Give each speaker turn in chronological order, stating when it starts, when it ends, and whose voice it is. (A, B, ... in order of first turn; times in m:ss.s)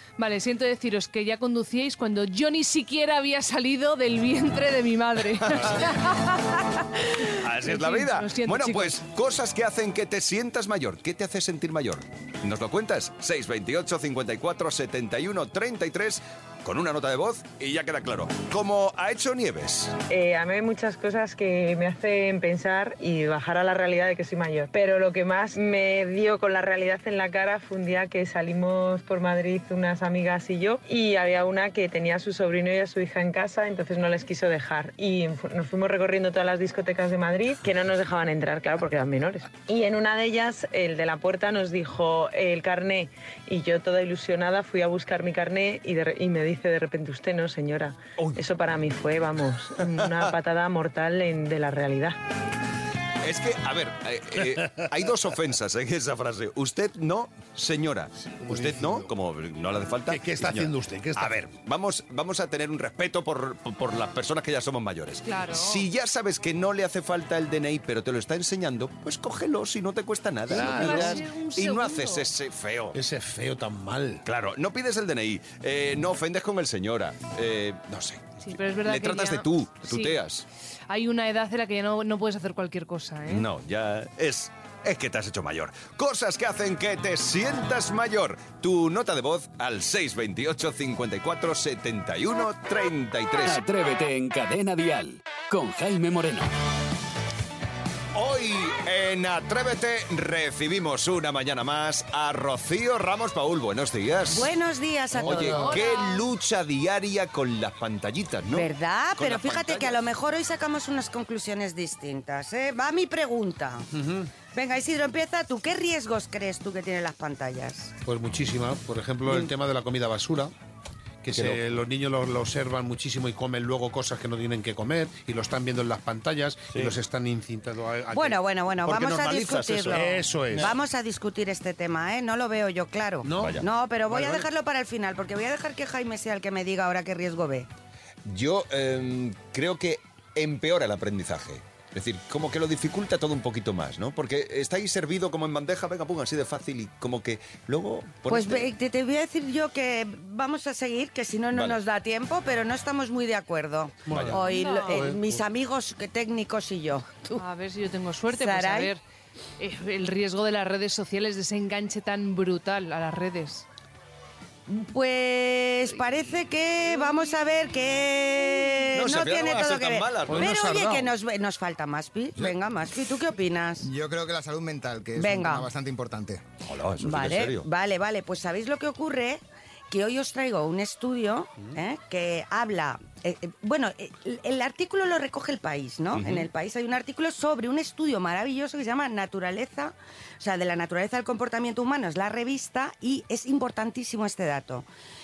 0:00.2-0:09.0 A
0:05.4-0:05.8 B
0:07.3-0:19.9 B
0:20.1-0:52.2 C
0:49.8-0:50.2 B
0:53.2-1:13.0 B
0:58.4-0:59.1 D
1:00.1-1:01.4 D
1:05.2-1:05.8 A
1:10.5-1:11.2 D
1:10.5-1:12.3 A
1:12.9-1:14.2 D
1:14.2-1:20.4 B
1:18.4-1:20.2 A
1:20.9-1:23.4 A
1:23.3-1:33.6 B
1:33.4-1:36.5 E
1:38.1-1:44.5 B
1:44.3-1:45.7 F
1:45.2-1:45.6 D
1:45.2-1:50.1 B
1:45.6-1:46.2 A
1:48.5-1:53.9 F
1:53.9-1:54.3 D
1:54.5-1:57.9 F
1:58.0-2:00.5 D
2:01.2-2:08.4 D
2:01.3-2:01.6 B
2:08.1-2:17.7 F
2:08.8-2:10.8 B
2:09.9-2:10.8 D
2:13.2-2:13.6 D
2:13.4-2:14.5 B
2:18.2-2:28.7 B
2:28.3-2:37.4 F
2:31.5-2:31.8 B
2:34.0-2:35.3 D
2:34.1-2:34.4 B
2:34.4-2:35.1 A
2:37.3-2:39.0 A
2:38.3-2:38.9 F
2:39.6-2:43.6 A
2:44.7-2:53.9 F
2:48.9-2:50.7 B
2:50.3-2:51.0 D
2:53.8-2:56.4 G
2:55.1-2:55.7 F
2:56.6-2:57.7 B
2:57.0-3:14.8 F
3:06.1-3:06.5 B